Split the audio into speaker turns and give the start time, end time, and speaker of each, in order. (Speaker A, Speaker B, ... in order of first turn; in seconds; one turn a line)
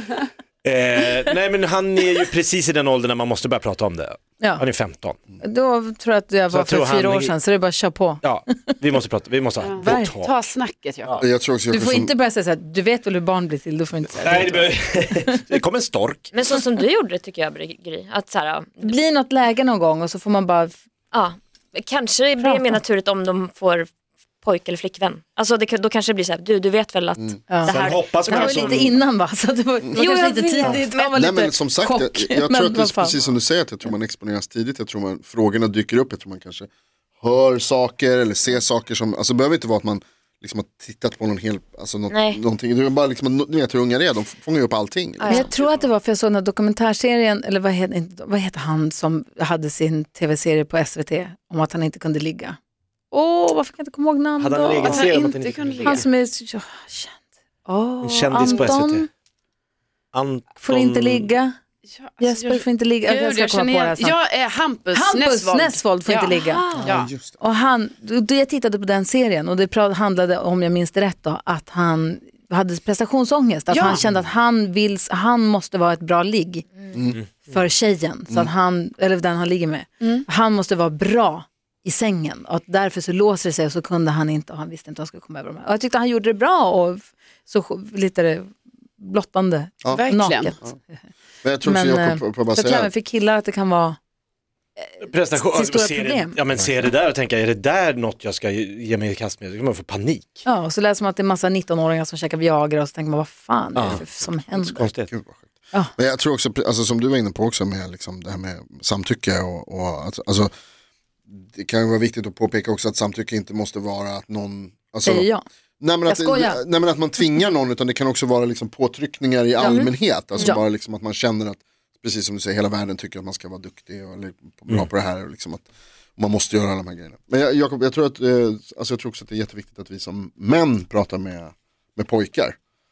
Speaker A: 0.6-5.2
Speaker B: 5.4-8.8
Speaker A: 6.5-7.3
Speaker A: 8.2-10.4
Speaker C: 9.6-11.2
Speaker B: 9.8-10.2
Speaker D: 11.2-12.1
Speaker B: 11.7-15.4
Speaker A: 14.2-16.3
Speaker E: 16.3-19.0
Speaker B: 18.8-20.8
Speaker E: 21.1-23.9
Speaker B: 22.4-22.8
Speaker E: 24.4-28.9
Speaker B: 27.5-33.2
Speaker A: 27.7-29.0
Speaker E: 29.9-31.1
Speaker D: 30.6-36.7
Speaker D: 37.2-45.8
Speaker E: 42.1-42.4
Speaker E: 45.2-45.5
Speaker B: 45.3-52.6
Speaker B: 53.1-55.1
Speaker A: 54.4-56.0
Speaker C: 54.8-56.0
Speaker B: 55.8-59.1
Speaker A: 58.0-59.1
Speaker C: 58.4-58.7
Speaker A: 60.1-61.3
Speaker B: 60.6-61.5
Speaker C: 61.9-67.1
Speaker B: 62.2-64.1
Speaker B: 64.9-66.7
Speaker D: 66.8-67.4
Speaker B: 67.4-90.7
Speaker C: 73.7-74.0
Speaker D: 74.0-74.3
Speaker D: 76.9-77.2
Speaker C: 89.9-90.5
Speaker D: 91.4-92.9
Speaker B: 91.6-94.0
Speaker B: 94.8-96.4
Speaker A: 95.0-100.4
Speaker B: 100.4-104.8
Speaker A: 103.8-104.0
Speaker D: 103.8-110.5
Speaker A: 104.6-105.1
Speaker D: 111.3-115.3
Speaker B: 115.0-115.4
Speaker D: 115.8-125.6
Speaker B: 116.0-116.6
Speaker E: 119.6-119.9
Speaker D: 126.2-132.6